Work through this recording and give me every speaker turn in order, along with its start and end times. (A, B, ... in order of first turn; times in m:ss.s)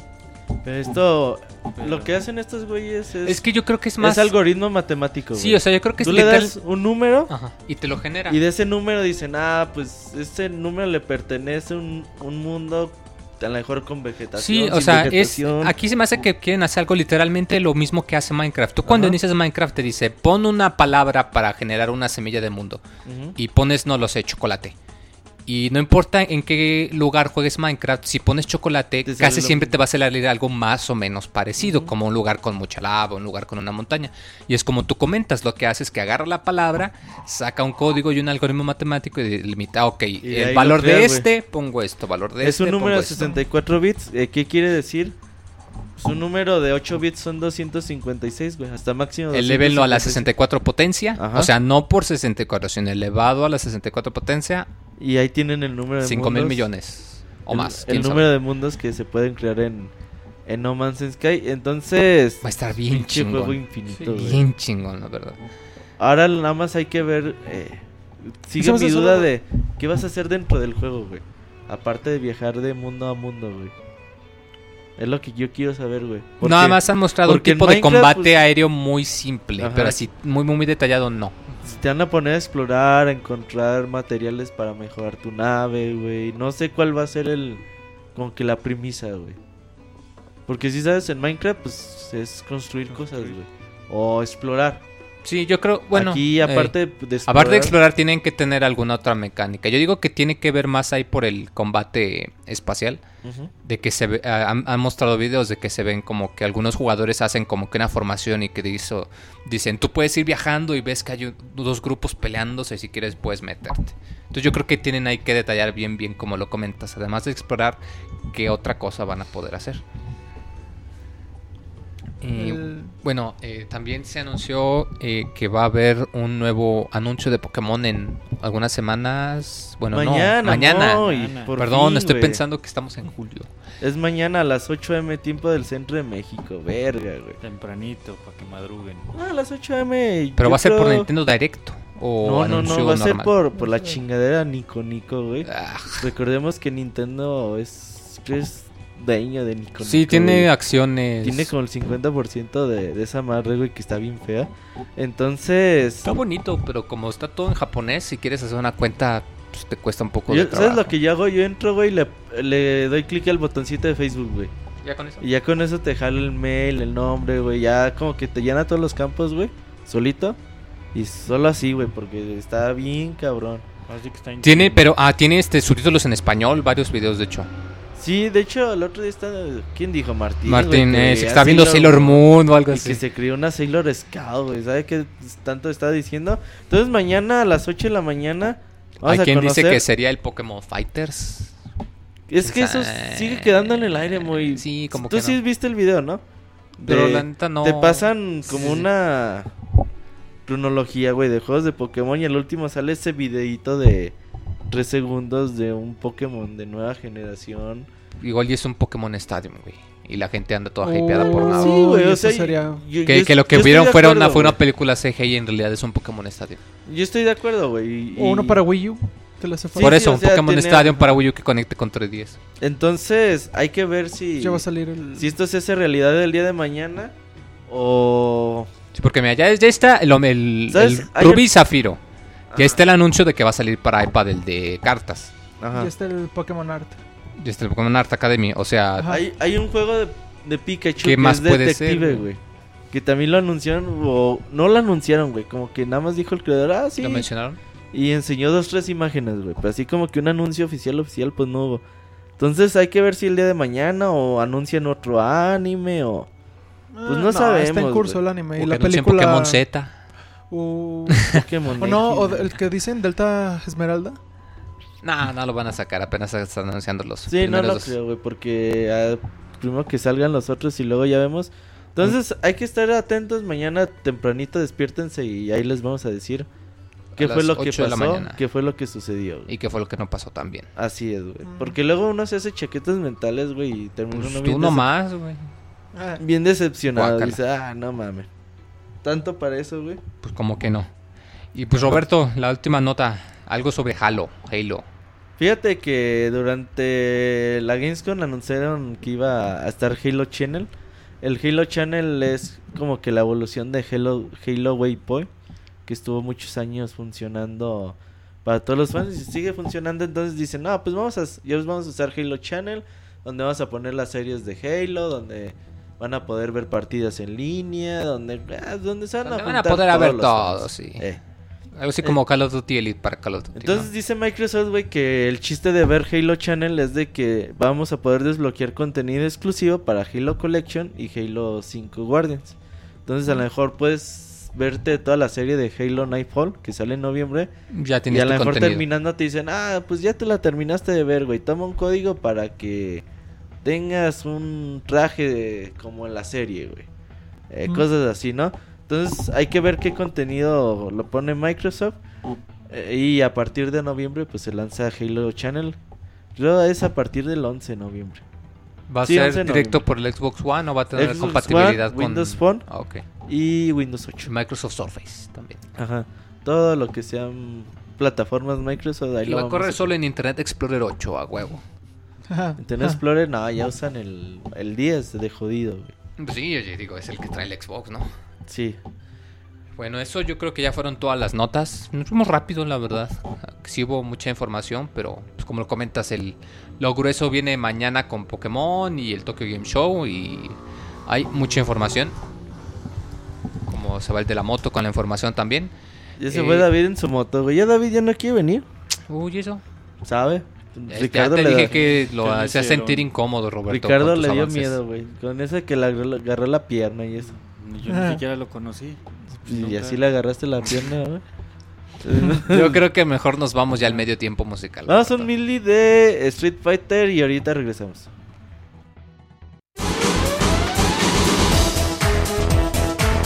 0:00.6-0:07.3 A
0:01.8-0:02.1 B
0:03.2-0:04.4 C
0:05.3-0:06.6 C
0:07.3-0:08.4 C
0:08.3-0:15.7 A
0:14.4-0:22.8 C
0:18.9-0:19.2 A
0:23.0-0:23.4 A
0:23.4-0:24.8 C
0:25.5-0:43.3 C
0:29.0-0:29.8 A
0:31.6-0:31.9 A
0:40.2-0:41.3 A
0:42.4-0:45.2 A
0:43.2-0:43.4 D
0:46.0-0:50.3 A
0:49.3-0:54.7 C
0:51.2-0:51.5 A
0:55.0-0:56.7 A
0:56.0-0:58.3 C
0:57.5-0:59.9 A
1:00.5-1:04.4 A
1:02.4-1:05.4 C
1:03.9-1:04.3 D
1:06.0-1:13.7 A
1:08.6-1:09.3 D
1:15.0-1:18.4 A
1:16.4-1:21.4 C
1:19.6-1:20.0 A
1:21.6-1:27.6 A
1:28.1-1:29.4 A
1:30.5-1:34.8 A
1:32.9-1:33.4 B
1:35.2-1:43.0 C
1:35.9-1:37.8 A
1:43.2-1:43.5 A
1:43.6-1:59.8 C
2:02.2-2:11.1 C
2:02.3-2:03.0 D
2:09.9-2:12.4 A
2:11.0-2:11.5 B
2:11.6-2:13.5 C
2:13.8-2:17.4 A
2:17.4-2:19.1 B
2:19.1-2:21.1 A
2:20.4-2:23.3 C
2:22.2-2:30.5 A
2:23.6-2:23.9 D
2:25.4-2:26.1 C
2:29.8-2:31.5 C
2:31.2-2:36.1 A
2:36.0-2:40.9 C
2:40.3-2:44.5 A
2:44.8-2:45.2 C
2:45.2-2:50.4 A
2:50.9-2:53.7 A
2:53.9-2:54.9 B
2:54.4-2:57.5 C
2:58.0-3:09.8 A
3:00.5-3:03.0 C
3:09.0-3:11.6 C
3:12.3-3:16.2 A
3:12.4-3:15.4 C
3:16.8-3:19.5 A
3:16.9-3:18.8 C
3:20.5-3:24.2 A
3:24.7-3:27.9 A
3:28.2-3:31.8 C
3:30.8-3:32.8 D
3:31.5-3:34.6 A
3:33.1-3:36.6 C
3:36.9-3:38.6 A
3:38.1-3:40.0 D
3:39.7-3:41.1 A
3:39.8-3:42.4 C
3:42.6-3:47.2 A
3:44.4-3:45.3 D
3:47.7-3:48.7 A
3:48.9-3:52.0 C
3:50.7-3:51.5 A
3:52.5-3:52.8 A
3:52.5-3:55.3 C
3:55.6-3:55.9 A
3:55.7-3:57.0 D
3:57.4-3:59.1 C
3:59.0-3:59.2 D
3:59.0-4:02.4 A
4:01.0-4:02.2 C
4:02.9-4:07.3 A
4:07.0-4:07.6 C
4:07.9-4:11.8 A
4:12.4-4:16.3 A
4:16.9-4:19.6 D
4:17.1-4:18.2 A
4:18.6-4:20.0 C
4:20.5-4:24.2 D
4:21.3-4:22.5 A
4:25.0-4:28.0 C
4:27.3-4:36.5 A
4:37.2-4:38.4 C
4:37.2-4:39.5 A
4:39.5-4:40.7 C
4:40.8-4:44.9 A
4:41.4-4:41.8 D
4:44.1-4:45.5 C
4:45.9-4:46.2 D
4:46.2-4:48.3 A
4:46.9-4:47.4 C
4:49.0-4:50.0 A
4:50.2-4:50.9 C
4:51.5-4:54.8 C
4:55.4-5:00.7 A
5:01.2-5:05.3 A
5:05.9-5:21.2 A
5:19.2-5:21.1 C
5:21.8-5:23.9 C
5:23.6-5:37.5 A
5:37.7-5:38.8 C
5:38.1-5:43.0 A
5:43.6-5:46.9 A
5:47.5-5:52.0 A
5:52.7-5:55.8 A
5:56.4-5:58.2 A
5:58.9-6:03.0 C
5:59.0-5:59.8 A
6:01.0-6:02.7 A
6:03.2-6:04.3 A
6:04.2-6:05.7 C
6:05.8-6:09.9 A
6:09.2-6:11.6 C
6:12.3-6:13.0 D
6:12.6-6:15.9 A
6:16.2-6:18.1 C
6:18.5-6:18.8 A
6:19.8-6:32.2 C
6:33.7-6:35.7 C
6:36.2-6:38.7 A
6:36.3-6:36.7 C
6:39.1-6:39.6 C
6:40.0-6:41.8 A
6:40.9-6:44.8 C
6:41.7-6:43.1 B
6:43.7-6:47.3 A
6:47.2-6:50.0 B
6:47.9-6:48.2 D
6:49.4-6:51.2 A
6:52.0-6:52.8 A
6:52.5-6:55.3 C
6:54.9-6:58.1 A